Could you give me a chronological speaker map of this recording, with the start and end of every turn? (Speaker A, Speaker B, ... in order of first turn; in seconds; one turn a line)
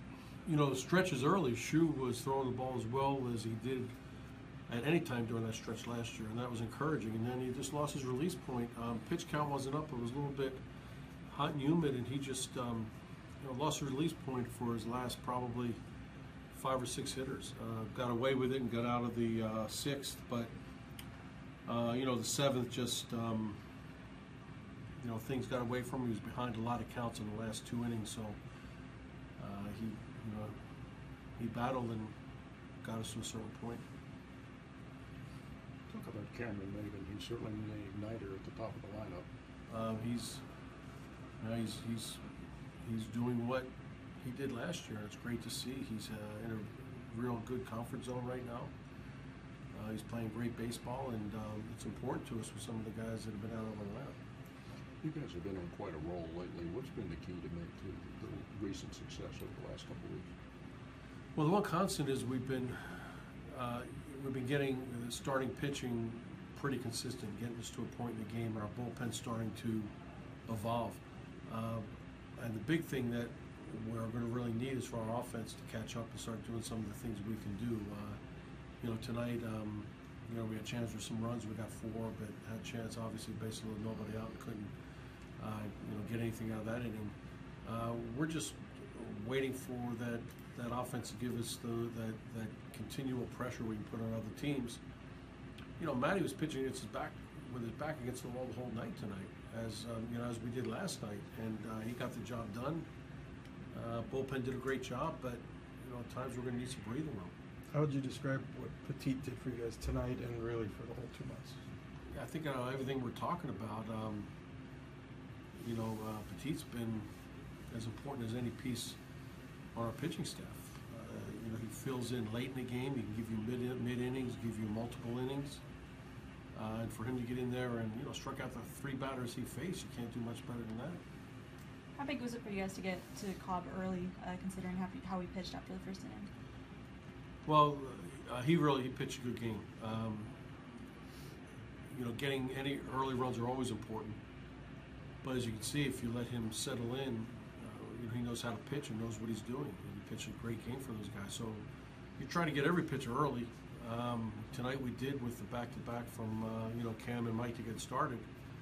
Speaker A: 0.5-3.9
Speaker A: 4.7-10.6
Speaker A: 11.3-15.8
Speaker A: 16.5-20.5
Speaker A: 21.6-23.6
Speaker A: 25.0-28.4
Speaker A: 29.4-30.5
Speaker A: 31.4-32.1
Speaker A: 32.8-33.8
Speaker B: 35.9-39.3
Speaker A: 39.7-40.4
Speaker A: 41.4-42.2
Speaker A: 42.8-43.7
Speaker A: 44.2-48.7
Speaker A: 49.7-54.2
Speaker B: 55.0-60.3
Speaker A: 61.3-69.9
Speaker A: 70.5-71.8
Speaker A: 72.4-78.2
Speaker A: 78.8-84.7
Speaker A: 85.4-94.8
Speaker A: 95.8-102.9
Speaker A: 103.7-107.3
Speaker C: 107.7-111.6
Speaker A: 112.1-114.3
Speaker A: 115.6-117.1
Speaker A: 117.7-119.0
Speaker A: 119.7-125.6
Speaker A: 126.5-131.0
Speaker D: 131.9-136.3
Speaker A: 137.4-140.3
Speaker A: 141.9-144.2
Speaker A: 145.2-151.7
Speaker A: 152.2-158.3